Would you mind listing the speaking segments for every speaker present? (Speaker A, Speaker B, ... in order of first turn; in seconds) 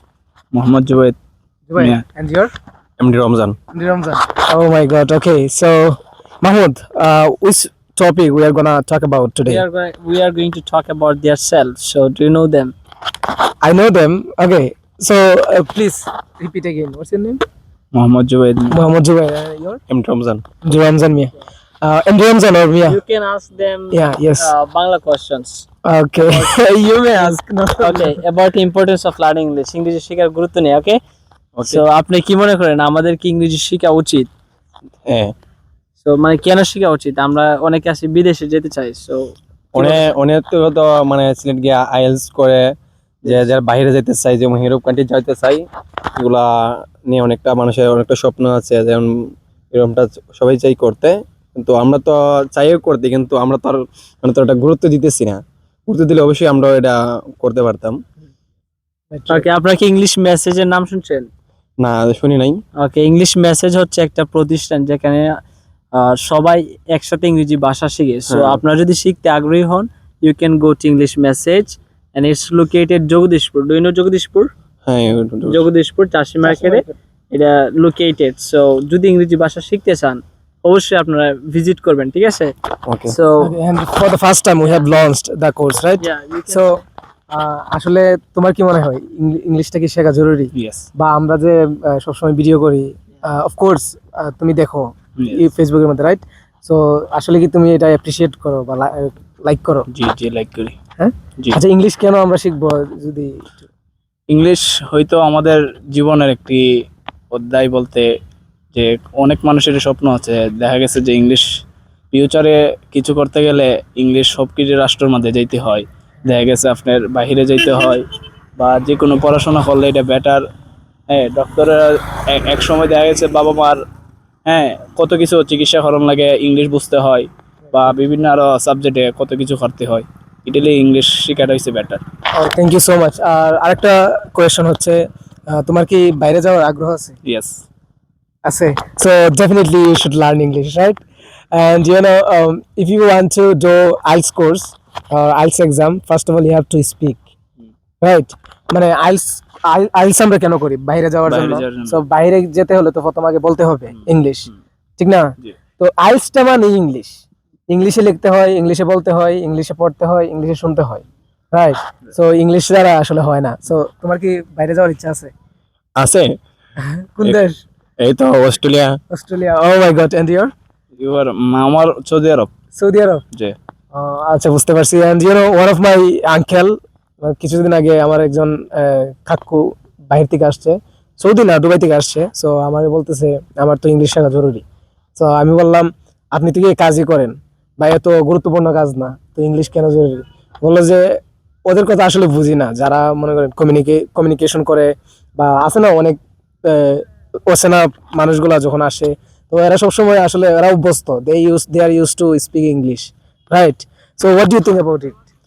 Speaker A: 0.5-1.1, 1.8-2.0, 17.9-18.8, 90.5-90.8, 95.2-95.4, 99.9-100.7, 104.3-106.6, 107.3-108.1, 108.7-111.4, 112.1-118.0, 118.6-120.4, 121.1-123.8, 124.5-132.0, 137.2-137.6, 151.2-152.0, 153.9-154.6, 171.0-172.5
Speaker B: 1.7-2.5, 3.7-9.6, 13.6-17.4, 18.7-19.8, 20.6-23.0, 23.9-24.5, 25.8-28.2, 59.1-59.5, 76.4-76.9, 83.4-99.9, 101.0-103.7, 132.3-137.2, 138.4-141.0, 141.5-147.2, 148.0-165.3, 166.8-167.6, 169.1-170.5, 172.7-173.2, 173.9-184.6, 185.2-205.2
Speaker C: 3.0-3.5, 19.9-20.4, 31.6-31.8, 35.1-35.3, 39.7-42.6, 43.2-45.6, 46.2-46.4, 47.1-49.1, 49.7-58.0, 61.8-62.6, 68.3-68.6, 74.8-75.6, 82.9-83.1, 166.0-166.4, 168.0-168.9
Speaker D: 9.5-12.7, 22.8-25.6, 26.2-26.5, 27.1-31.0, 31.6-34.3, 36.0-40.0, 59.3-61.3, 62.8-65.4, 65.9-74.5, 75.5-82.5, 83.0-83.5, 84.6-85.0, 86.0-86.8